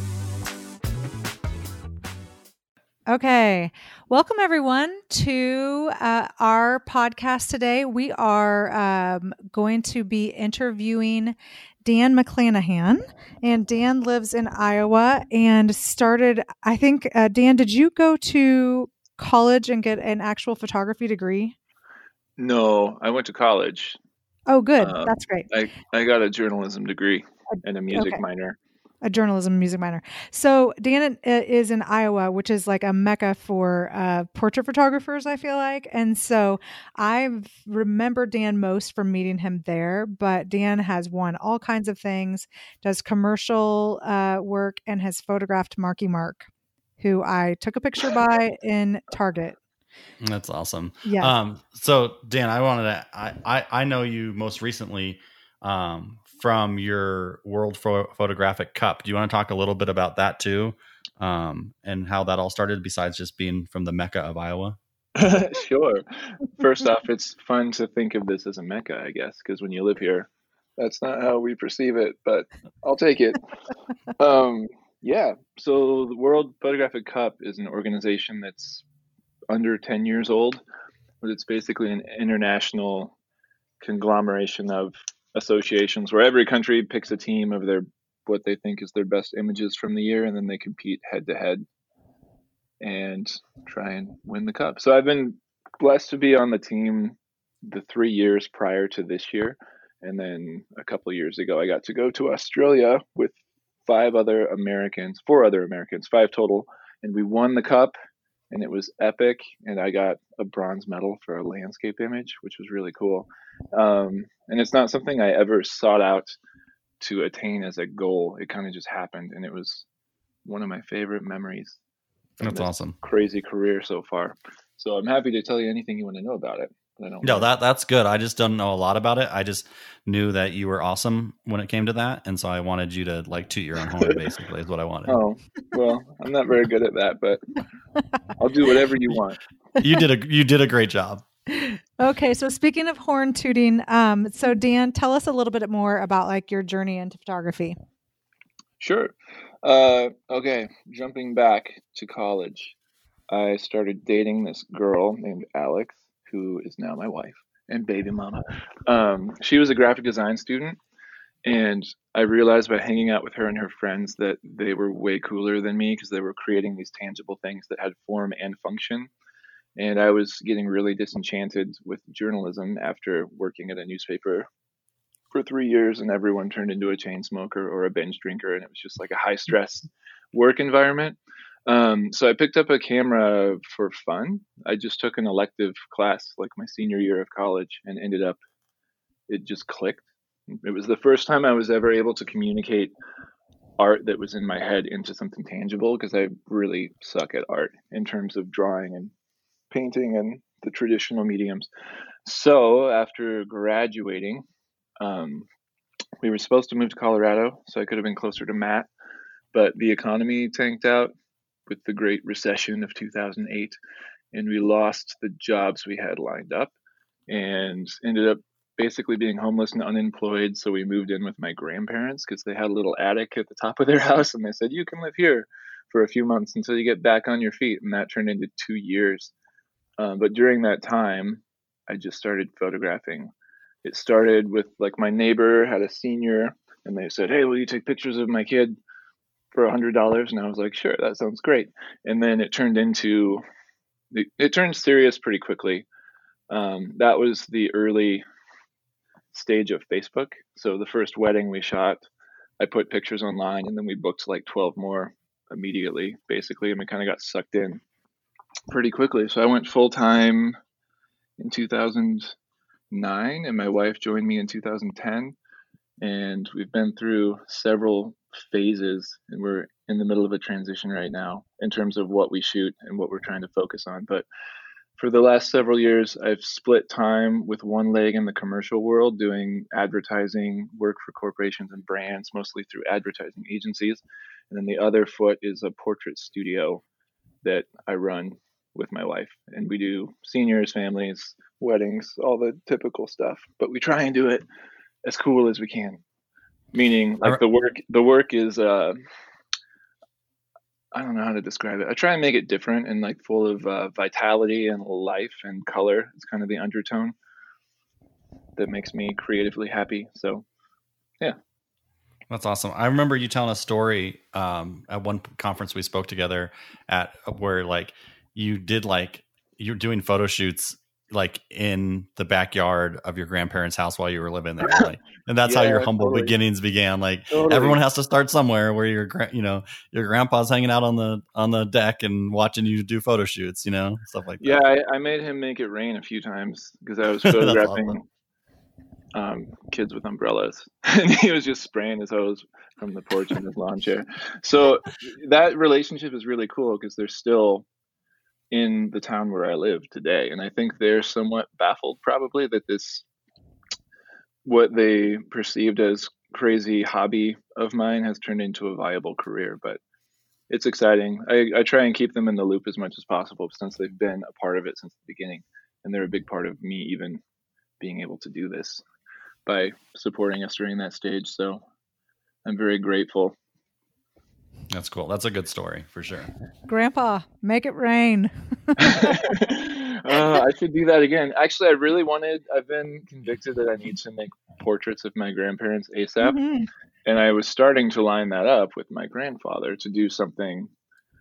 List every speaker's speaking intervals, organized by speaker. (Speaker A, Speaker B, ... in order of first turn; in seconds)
Speaker A: 3.1-21.6, 24.5-25.5, 27.5-28.2, 29.0-46.5, 47.0-49.6, 51.0-51.4, 141.5-147.8, 376.7-379.2, 386.2-386.7
Speaker B: 22.4-24.0, 24.8-28.6, 65.2-73.4, 74.2-78.8, 79.5-80.6, 81.2-83.1, 83.8-91.7, 92.8-103.3, 103.9-107.9, 108.5-116.4, 117.0-119.8, 120.5-121.8, 122.4-127.5, 135.1-137.4, 138.4-139.4, 148.8-152.7, 153.3-160.8, 161.4-169.1, 169.8-174.5, 175.3-188.4, 189.3-192.9, 193.8-199.1, 199.7-201.7, 202.3-204.4, 205.0-205.5, 206.2-208.9, 209.5-211.1, 211.7-213.8, 214.3-216.7, 217.3-229.3, 230.0-233.3, 233.8-238.8, 239.5-243.4, 244.1-245.9, 246.5-248.2, 249.3-252.1, 252.6-257.8, 258.7-260.6, 261.4-262.3, 262.9-265.4, 266.0-274.2, 275.0-286.8, 287.4-294.4, 295.0-296.0, 296.7-299.0, 300.9-307.1, 308.6-310.4, 324.6-324.9, 325.4-326.3, 327.3-327.8, 334.4-338.0, 339.1-347.7, 348.5-353.1, 354.4-359.8, 360.5-367.2, 367.8-368.8, 369.5-371.6, 372.4-373.4, 378.8-386.4, 387.1-390.7
Speaker C: 50.2-64.8, 122.4-123.0, 127.2-135.2, 139.8-141.2, 312.3-334.6, 337.2-338.0, 374.7-376.3